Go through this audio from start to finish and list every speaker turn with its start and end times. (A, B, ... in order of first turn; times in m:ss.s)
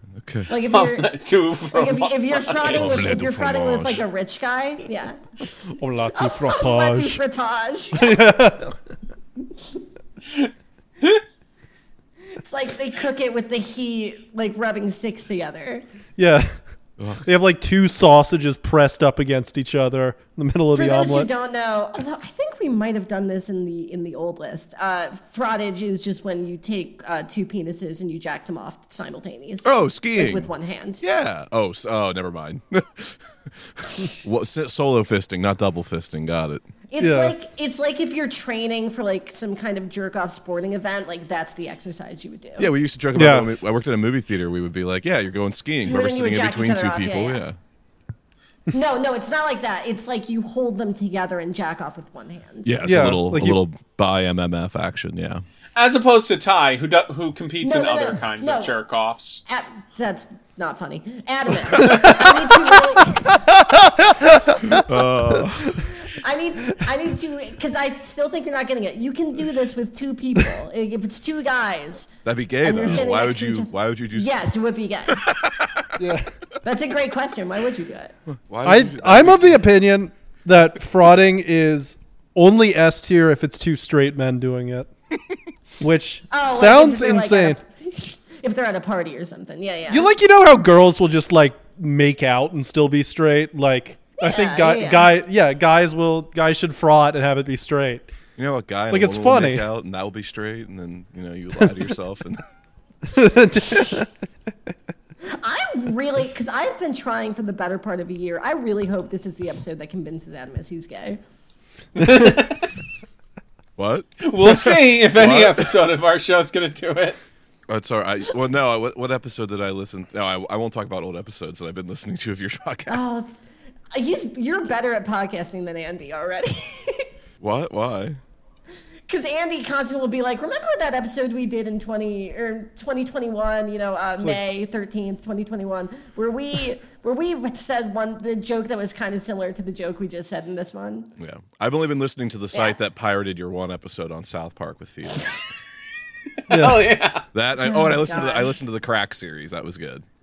0:00.2-0:00.5 A
0:00.5-0:01.2 B
0:00.6-0:03.0 C
0:01.7-0:05.2 B
0:02.6-0:04.0 A
0:05.8-0:07.2 D
0:06.1-0:08.2 B
0:08.0-0:08.8 D
0:12.4-0:15.8 B
0:16.2-0:16.5 D
0:17.0-0:17.2 A
0:17.2-0:21.3 D
0:20.7-0:31.0 B
0:29.6-0:30.5 A
0:31.0-0:36.6 A
0:36.9-0:42.7 B
0:37.0-0:37.4 D
0:42.6-0:47.6 A
0:43.2-0:43.5 D
0:45.9-0:47.4 B
0:48.7-0:52.7 B
0:52.6-0:55.4 A
0:52.8-0:53.6 D
0:55.8-0:59.4 C
0:57.6-0:58.7 B
0:59.5-1:03.5 B
1:01.8-1:04.8 D
1:04.7-1:05.9 A
1:06.0-1:12.1 B
1:12.2-1:14.4 A
1:12.6-1:15.2 B
1:15.1-1:16.0 A
1:16.0-1:16.3 D
1:16.6-1:18.1 B
1:18.3-1:19.6 A
1:18.6-1:24.9 D
1:25.8-1:27.6 D
1:26.3-1:30.1 B
1:29.9-1:38.1 D
1:34.2-1:35.1 B
1:38.4-1:42.4 A
1:38.9-1:39.6 D
1:43.1-1:44.1 D
1:45.3-1:51.2 B
1:52.0-1:52.7 C
1:52.0-1:52.3 D
1:53.8-1:55.7 A
1:54.2-1:57.2 C
1:57.7-2:03.0 A
2:02.9-2:03.3 B
2:03.9-2:07.1 B
2:07.4-2:08.2 A
2:09.1-2:21.1 B
2:21.2-2:25.4 A
2:26.5-2:26.9 D
2:26.5-2:27.2 C
2:27.3-2:30.0 A
2:27.6-2:28.5 B